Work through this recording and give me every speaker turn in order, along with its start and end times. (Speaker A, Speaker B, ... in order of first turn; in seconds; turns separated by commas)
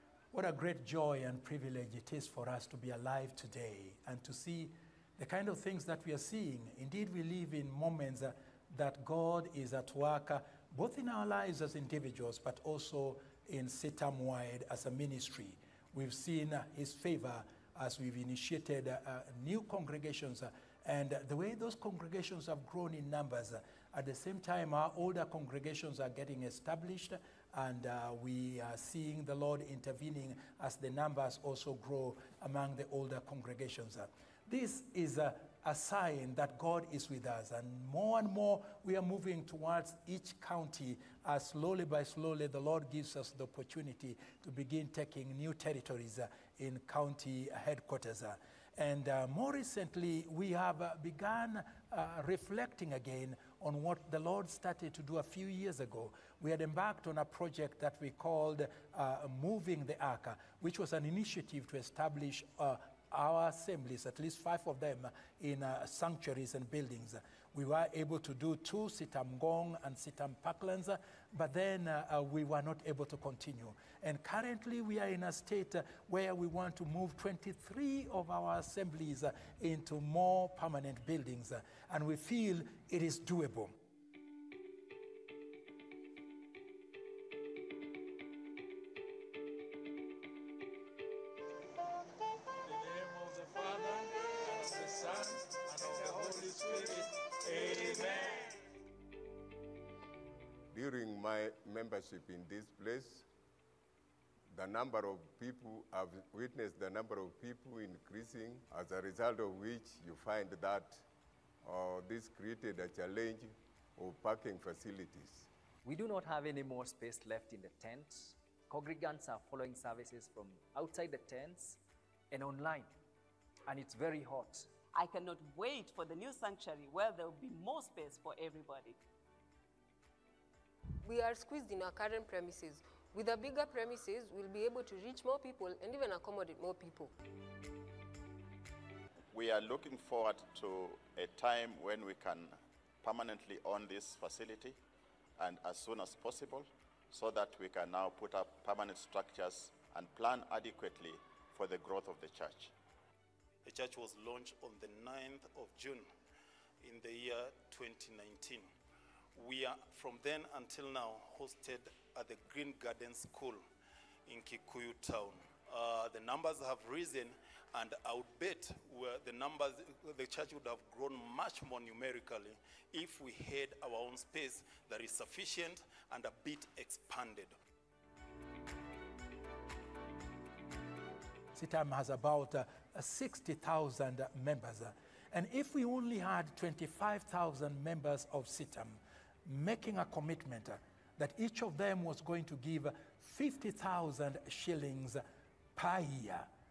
Speaker A: 0.3-83.7, Speaker B: 100.7-103.2, Speaker B: 104.5-111.0, Speaker B: 111.6-115.5, Speaker C: 115.8-121.8, Speaker C: 122.3-122.9, Speaker C: 123.7-124.7, Speaker D: 124.9-129.0, Speaker E: 131.1-137.1, Speaker F: 139.3-144.8, Speaker F: 145.4-152.7, Speaker G: 153.6-156.1, Speaker G: 156.8-158.7, Speaker G: 159.4-163.6, Speaker G: 164.3-177.5, Speaker A: 181.6-195.2, Speaker A: 195.7-196.5